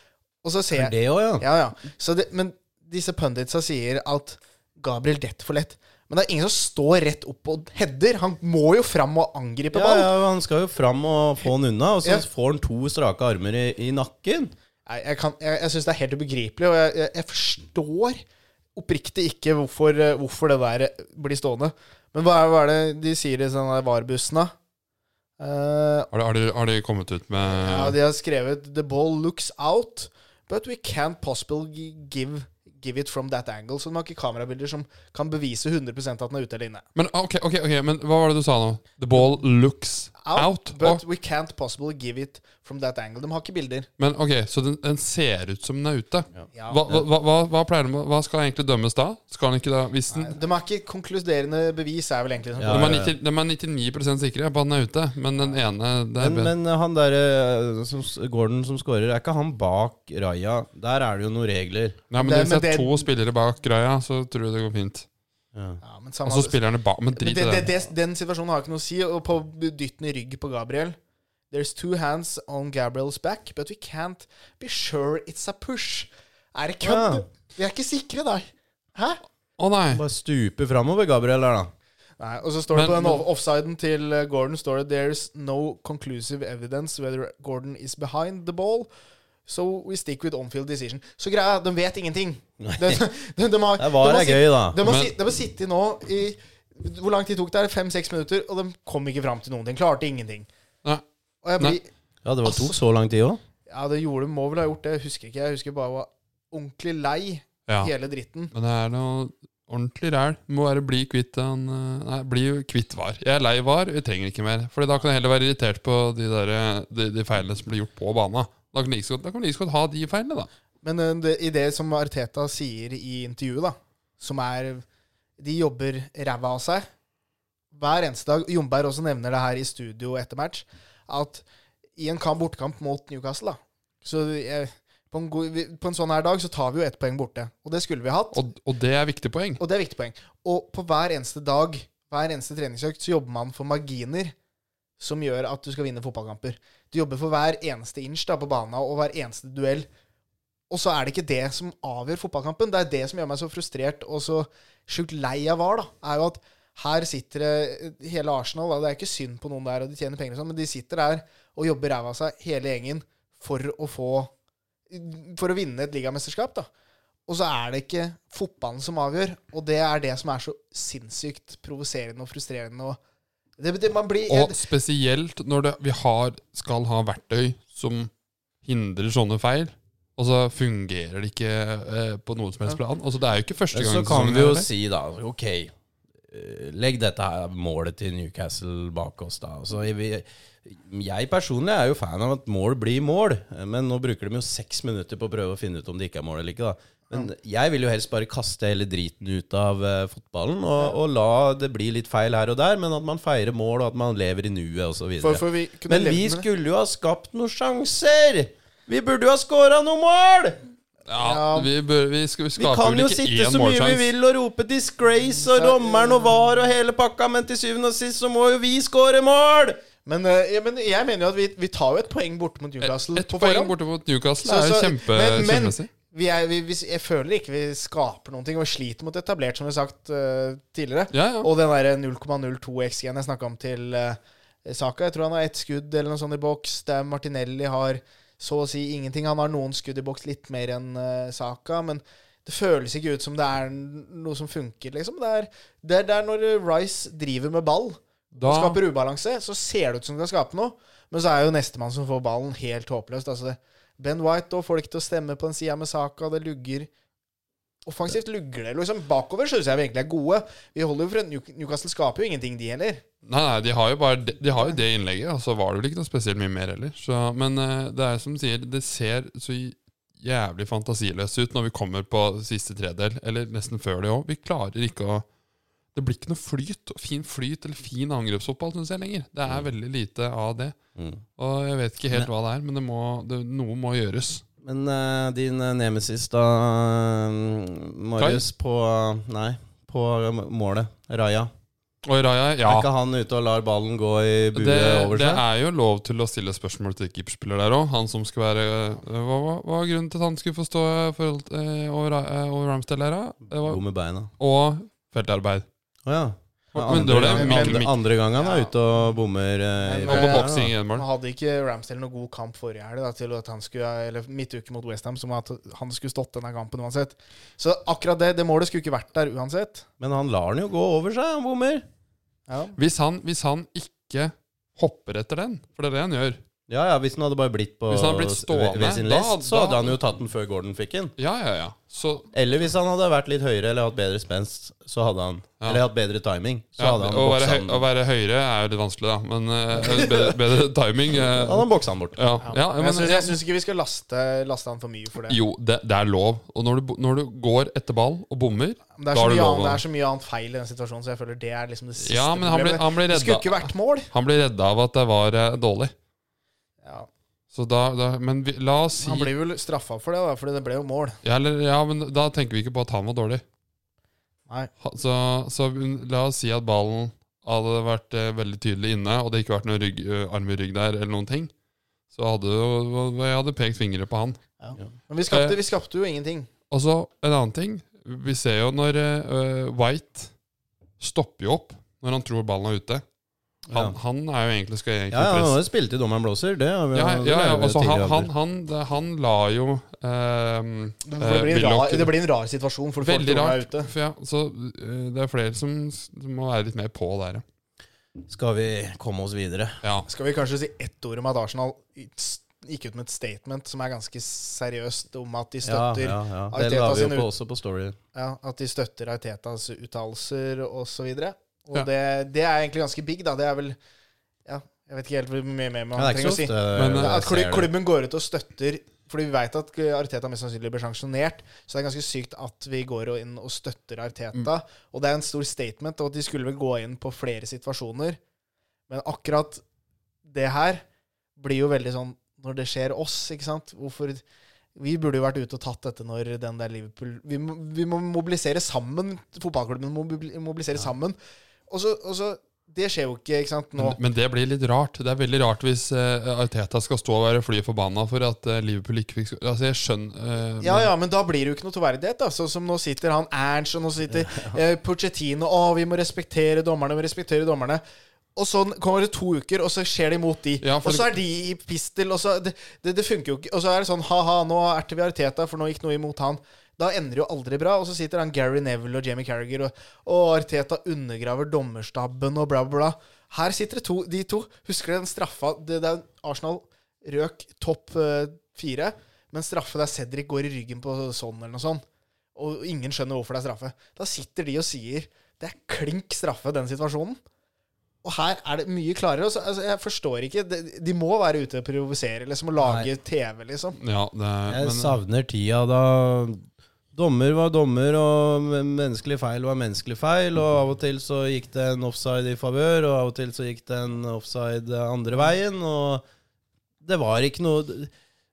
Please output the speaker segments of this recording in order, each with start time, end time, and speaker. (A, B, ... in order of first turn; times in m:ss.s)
0:00.4-0:10.1 A
0:00.7-0:01.4 B
0:09.7-0:14.5 B
0:14.8-0:18.2 A
0:18.7-0:24.5 A
0:25.4-0:26.1 A
0:26.1-0:28.0 C
0:27.5-0:36.8 A
0:36.9-0:41.0 C
0:40.2-0:43.9 A
0:44.0-0:50.3 C
0:46.3-0:47.0 B
0:46.5-0:46.8 A
0:50.1-0:53.1 A
0:52.6-0:53.1 B
0:52.7-0:56.5 C
0:56.2-1:02.0 B
1:02.1-1:05.1 C
1:02.2-1:03.1 A
1:05.5-1:05.8 B
1:05.8-1:06.6 A
1:06.2-1:07.7 C
1:07.1-1:11.0 A
1:11.5-1:19.2 A
1:16.8-1:17.2 B
1:19.6-1:20.0 C
1:19.9-1:21.7 B
1:22.2-1:28.9 A
1:22.7-1:23.2 C
1:29.4-1:40.5 A
1:32.6-1:33.0 B
1:33.8-1:34.8 B
1:34.8-1:35.1 C
1:41.4-1:41.9 A
1:42.2-1:43.4 B
1:42.4-1:42.7 A
1:43.7-1:48.5 A
1:47.7-1:47.9 C
1:48.5-2:00.5 C
2:00.8-2:04.8 A
2:05.4-2:06.9 A
2:07.7-2:11.4 A
2:12.0-2:18.4 A
2:18.3-2:19.6 C
2:19.6-2:24.3 A
2:25.0-2:29.9 A
2:30.7-2:44.3 A
2:44.9-2:46.7 A
2:47.3-2:53.0 A
2:53.6-2:54.6 A
2:54.3-2:58.1 C
2:58.6-3:04.7 C
3:03.7-3:05.7 B
3:06.3-3:30.6 B
3:25.2-3:26.4 A
3:31.1-3:34.1 C
3:31.2-3:31.7 A
3:32.6-3:39.8 B
3:35.4-3:36.4 A
3:40.0-3:43.7 A
3:42.8-3:45.9 C
3:44.4-4:16.9 A
3:51.1-3:51.5 C
4:08.3-4:08.8 C
4:17.8-4:23.0 A
4:23.2-4:35.2 C
4:35.9-4:40.8 C
4:41.0-4:41.2 B
4:41.4-4:44.4 C
4:44.6-4:51.5 B
4:52.0-4:52.9 C
4:52.6-4:55.4 B
4:54.5-5:03.8 C
5:03.5-5:04.3 B
5:04.4-5:05.6 C
5:06.0-5:10.7 B
5:06.7-5:07.9 C
5:06.8-5:08.7 A
5:09.8-5:19.8 A
5:10.0-5:11.0 C
5:20.0-5:21.8 B
5:22.5-5:22.8 A
5:22.8-5:26.4 C
5:26.7-5:31.1 B
5:27.9-5:30.0 C
5:31.2-5:32.3 C
5:32.3-5:37.8 B
5:36.8-5:43.4 C
5:41.2-5:42.2 B
5:42.4-5:45.4 A
5:45.3-5:49.8 C
5:49.0-5:54.1 A
5:52.0-5:55.9 C
5:56.8-5:57.1 A
5:57.5-5:59.3 C
5:59.0-6:01.2 A
6:01.2-6:03.4 C
6:04.8-6:11.5 C
6:12.1-6:14.4 C
6:14.6-6:16.5 A
6:15.3-6:15.6 C
6:16.7-6:20.3 C
6:21.0-6:23.0 C
6:23.7-6:24.0 B
6:23.7-6:25.6 C
6:25.1-6:28.3 B
6:26.9-6:32.2 C
6:31.0-6:33.9 A
6:33.0-6:37.4 C
6:38.2-6:39.8 B
6:40.1-6:47.3 A
6:45.6-6:48.0 B
6:48.1-6:53.8 A
6:54.4-7:08.2 A
6:55.9-6:57.7 B
6:56.7-6:57.2 C
7:08.9-7:09.6 A
7:10.2-7:10.8 A
7:11.4-7:14.2 A
7:14.8-7:21.2 A
7:21.7-7:24.0 A
7:23.8-7:30.9 C
7:30.6-7:37.8 A
7:34.2-7:34.6 B
7:38.4-8:01.8 A
7:40.6-7:41.2 C
8:02.3-8:07.2 A
8:08.0-8:13.8 A
8:12.6-8:12.9 B
8:13.8-8:15.0 C
8:14.5-8:26.0 B
8:26.8-8:27.9 B